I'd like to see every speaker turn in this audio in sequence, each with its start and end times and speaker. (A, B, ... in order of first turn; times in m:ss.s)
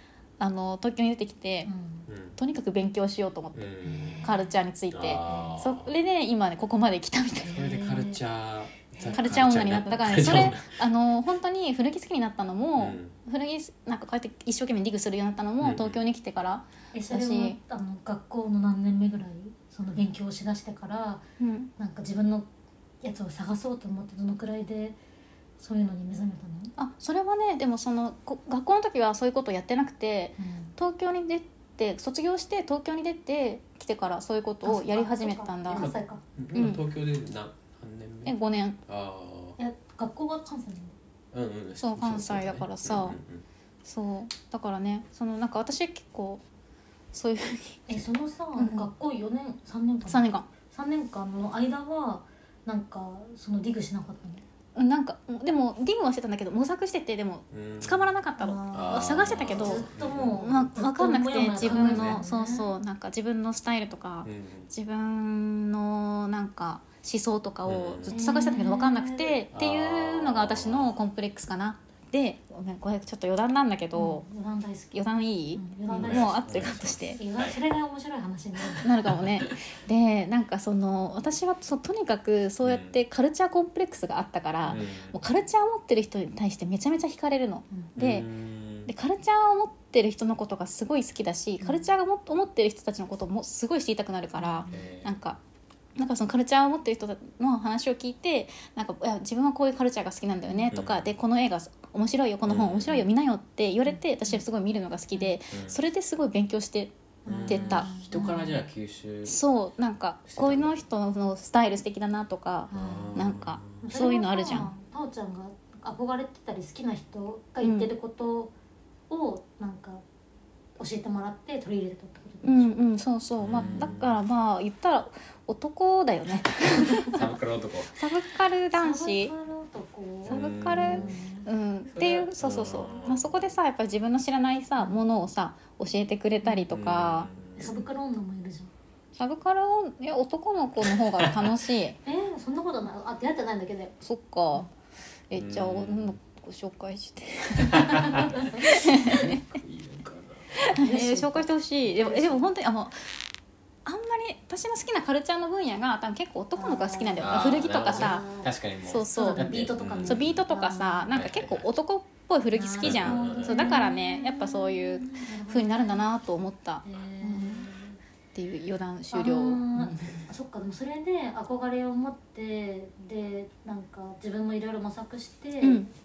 0:00.4-0:01.7 A
0:01.6-0:02.1 B
0:02.1-0:02.4 C
0:02.4-0:07.6 A
0:03.5-0:04.3 C
0:03.9-0:04.3 B
0:04.9-0:05.9 C
0:05.2-0:05.5 B
0:07.4-0:08.2 B
0:07.5-0:10.7 C
0:09.0-0:09.2 B
0:09.1-0:17.6 A
0:12.8-0:13.1 C
0:15.6-0:16.0 C
0:16.9-0:21.2 B
0:21.4-0:21.7 A
0:21.8-0:22.5 B
0:23.0-0:25.0 B
0:25.6-0:26.7 B
0:26.8-0:35.9 A
0:30.4-0:30.7 B
0:34.6-0:36.2 B
0:35.7-0:38.3 C
0:36.5-0:36.8 A
0:38.2-0:38.8 A
0:38.8-0:39.6 C
0:39.6-0:41.0 B
0:41.3-0:43.4 C
0:41.8-0:43.2 A
0:43.8-0:46.4 A
0:47.1-0:47.9 A
0:47.9-0:54.4 B
0:48.6-0:48.9 A
0:50.1-0:50.5 A
0:54.7-1:14.2 A
0:57.5-0:58.1 C
0:58.4-1:02.7 B
0:58.7-1:00.7 C
1:01.5-1:02.2 C
1:04.2-1:04.7 C
1:07.6-1:08.2 C
1:08.1-1:09.4 B
1:09.5-1:10.9 C
1:13.9-1:14.9 B
1:14.9-1:17.2 A
1:15.5-1:16.4 B
1:15.9-1:17.6 C
1:17.1-1:18.9 B
1:18.8-1:28.2 A
1:19.1-1:19.5 C
1:22.6-1:23.0 C
1:24.6-1:25.2 C
1:28.0-1:28.9 C
1:28.8-1:35.4 A
1:34.4-1:34.8 B
1:34.7-1:35.1 C
1:36.0-1:46.9 A
1:40.7-1:41.1 C
1:42.4-1:43.1 C
1:43.8-1:44.4 B
1:45.5-1:45.8 C
1:47.2-1:48.6 B
1:47.3-1:49.4 C
1:47.5-1:47.9 A
1:49.2-1:54.7 A
1:50.3-1:50.8 C
1:52.7-1:53.2 B
1:52.7-1:53.8 C
1:53.8-1:58.5 B
1:57.6-1:57.9 A
1:59.1-2:00.0 B
2:00.8-2:02.8 B
2:02.4-2:07.2 A
2:03.4-2:04.2 C
2:03.5-2:03.9 B
2:07.1-2:07.9 C
2:08.0-2:09.3 A
2:08.7-2:11.5 B
2:10.2-2:11.2 C
2:10.2-2:17.3 A
2:11.9-2:13.5 C
2:16.7-2:17.8 C
2:17.6-2:18.7 B
2:19.2-2:22.0 A
2:21.2-2:21.5 C
2:22.0-2:23.9 B
2:24.0-2:24.7 A
2:25.3-2:29.4 A
2:25.3-2:26.2 C
2:27.6-2:30.6 C
2:27.8-2:29.1 B
2:30.6-2:33.1 A
2:30.7-2:32.5 B
2:33.8-2:38.3 A
2:36.6-2:38.5 B
2:37.2-2:40.4 C
2:38.8-2:47.7 A
2:39.1-2:41.1 B
2:41.1-2:41.6 C
2:42.5-2:46.0 B
2:42.8-2:43.8 C
2:46.8-2:48.0 B
2:48.3-2:50.3 A
2:49.1-2:55.9 B
2:55.6-2:55.9 A